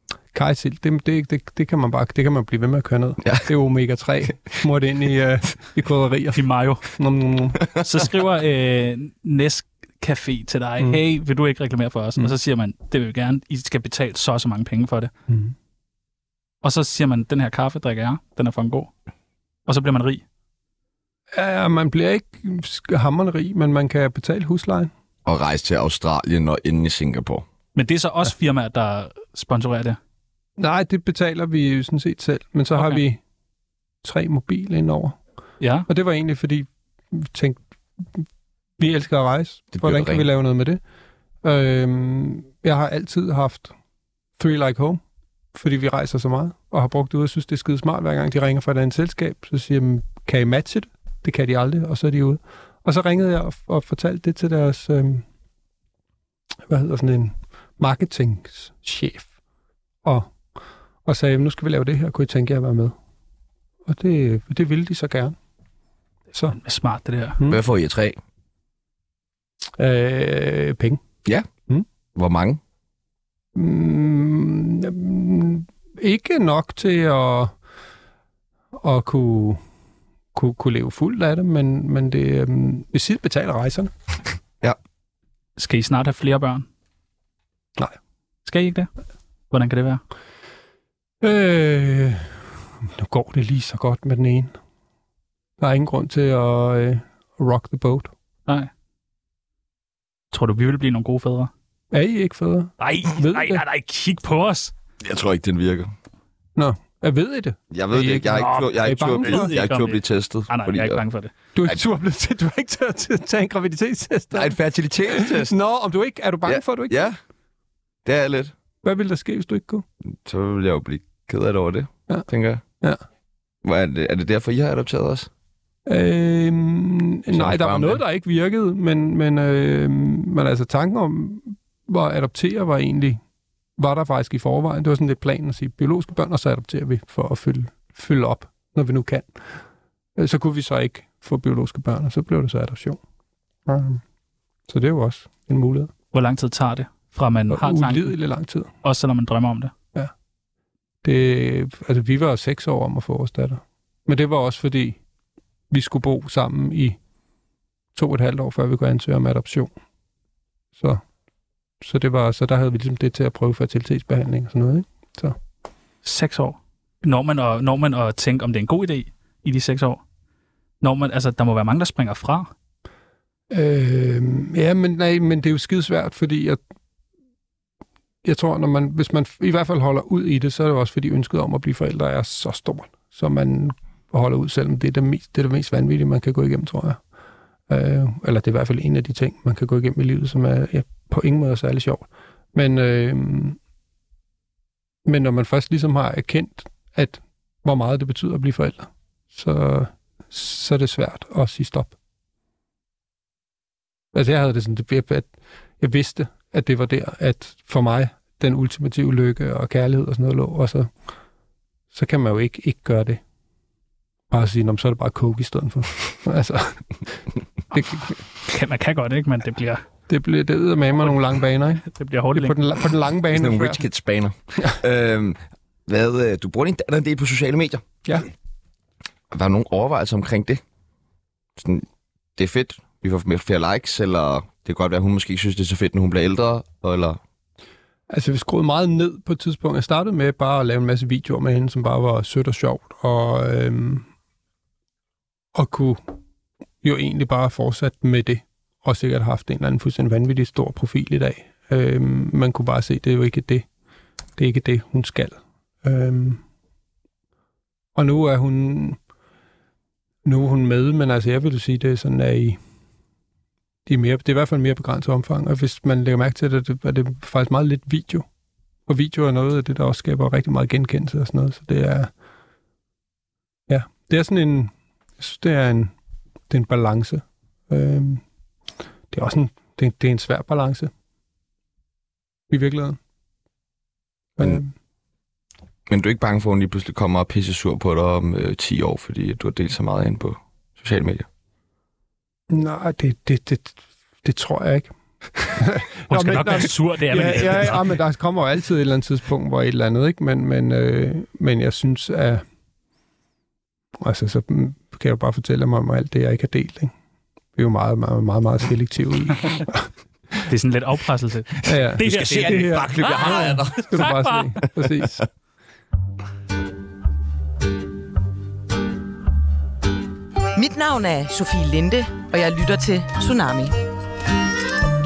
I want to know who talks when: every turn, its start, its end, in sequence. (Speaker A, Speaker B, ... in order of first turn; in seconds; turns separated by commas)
Speaker A: 0.3-7.6, Speaker B: 6.3-6.9, Speaker B: 7.8-15.1, Speaker A: 15.3-15.5, Speaker B: 16.6-18.9, Speaker B: 19.7-20.2, Speaker A: 21.3-24.9, Speaker C: 25.2-27.4, Speaker B: 27.8-30.0, Speaker A: 30.6-33.2, Speaker B: 32.8-33.0, Speaker A: 34.0-35.2, Speaker B: 35.6-35.9, Speaker A: 35.9-38.2, Speaker A: 38.8-40.8, Speaker C: 39.7-40.2, Speaker A: 41.4-43.7, Speaker A: 44.4-45.0, Speaker A: 45.5-55.2, Speaker A: 56.7-59.3, Speaker A: 60.0-60.3, Speaker A: 61.0-63.0, Speaker A: 63.9-65.4, Speaker B: 66.5-67.4, Speaker C: 67.5-68.2, Speaker A: 69.8-71.0, Speaker C: 72.2-72.6, Speaker A: 73.5-77.5, Speaker A: 78.8-79.6, Speaker A: 80.3-83.9, Speaker B: 85.6-86.7, Speaker B: 88.5-88.9, Speaker B: 89.5-90.0, Speaker A: 91.2-94.5, Speaker A: 95.6-98.1, Speaker B: 100.3-101.5, Speaker A: 101.9-103.6, Speaker B: 102.8-104.7, Speaker C: 105.0-105.9, Speaker A: 106.5-109.6, Speaker C: 107.7-111.0, Speaker B: 108.4-111.3, Speaker A: 111.5-117.1, Speaker C: 114.3-115.5, Speaker C: 116.5-117.2, Speaker C: 118.0-118.5, Speaker A: 118.8-119.8, Speaker C: 120.2-122.6, Speaker C: 123.6-125.3, Speaker A: 125.9-133.2, Speaker C: 127.3-128.0, Speaker A: 133.8-139.6, Speaker A: 140.2-143.0, Speaker A: 143.7-144.0, Speaker A: 144.7-145.9, Speaker B: 146.1-148.2, Speaker A: 147.5-148.7, Speaker B: 148.8-149.7, Speaker A: 151.0-155.0, Speaker A: 155.7-157.0, Speaker A: 157.9-159.7, Speaker A: 160.8-161.0, Speaker A: 161.8-165.4, Speaker B: 166.0-170.0, Speaker B: 170.8-172.5, Speaker A: 173.5-176.6, Speaker A: 178.2-187.0, Speaker A: 187.7-193.6, Speaker A: 195.1-201.9, Speaker A: 204.1-210.9, Speaker A: 211.9-213.2, Speaker A: 214.3-216.9, Speaker A: 217.7-218.2, Speaker B: 218.4-219.8, Speaker A: 220.1-223.8, Speaker B: 221.8-222.6, Speaker C: 223.3-227.8, Speaker C: 229.3-230.6, Speaker C: 231.6-231.9, Speaker C: 232.4-237.2, Speaker A: 238.1-244.1, Speaker A: 245.5-246.0, Speaker A: 246.8-253.7, Speaker A: 254.4-256.4, Speaker A: 257.9-259.0, Speaker A: 260.2-262.6, Speaker A: 263.9-268.2, Speaker A: 268.9-272.1, Speaker A: 273.7-275.9, Speaker A: 276.5-278.2, Speaker A: 279.1-280.9, Speaker A: 282.5-283.0, Speaker A: 284.4-284.7, Speaker C: 285.9-291.3, Speaker A: 292.5-302.4, Speaker B: 296.1-298.0, Speaker A: 303.9-306.9, Speaker A: 307.6-309.9, Speaker B: 310.5-314.7, Speaker A: 311.6-315.2, Speaker C: 312.0-314.0, Speaker D: 320.6-323.8